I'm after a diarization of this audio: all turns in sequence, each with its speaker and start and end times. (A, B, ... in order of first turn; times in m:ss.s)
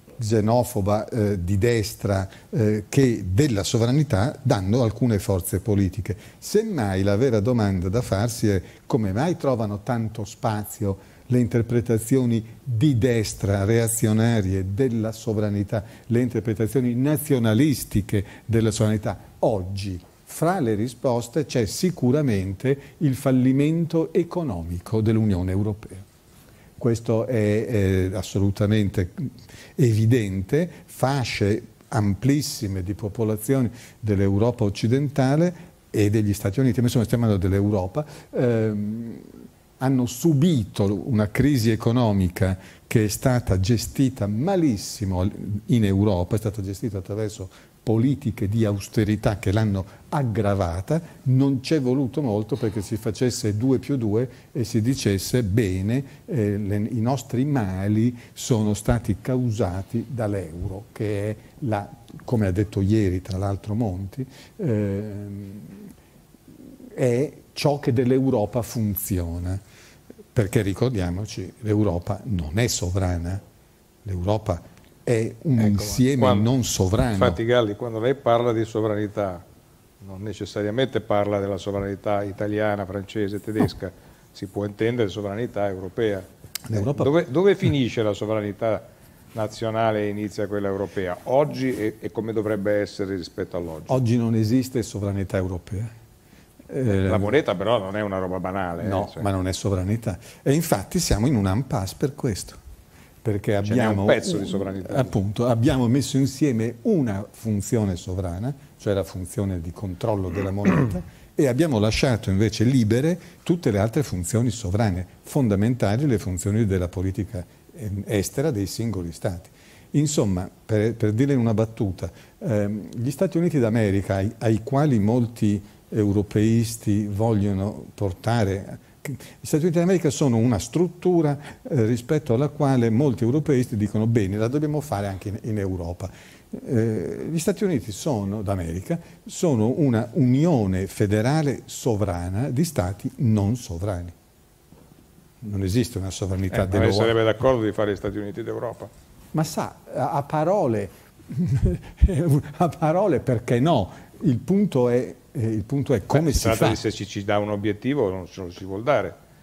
0:00.2-0:26.0 A
0:26.8-0:39.2 A
0:39.8-1:05.8 A
1:06.9-1:09.6 A
1:10.3-1:13.4 A
1:14.0-1:17.4 A
1:15.6-1:16.5 B
1:17.1-1:19.4 B
1:20.0-1:34.0 B
1:26.6-1:27.1 A
1:33.9-1:35.9 A
1:36.7-1:37.3 A
1:36.9-1:39.2 B
1:38.8-1:42.6 A
1:43.2-2:24.1 A
1:43.6-1:45.2 B
2:25.4-2:27.2 A
2:26.5-2:28.9 B
2:29.3-2:36.8 A
2:36.1-2:39.2 B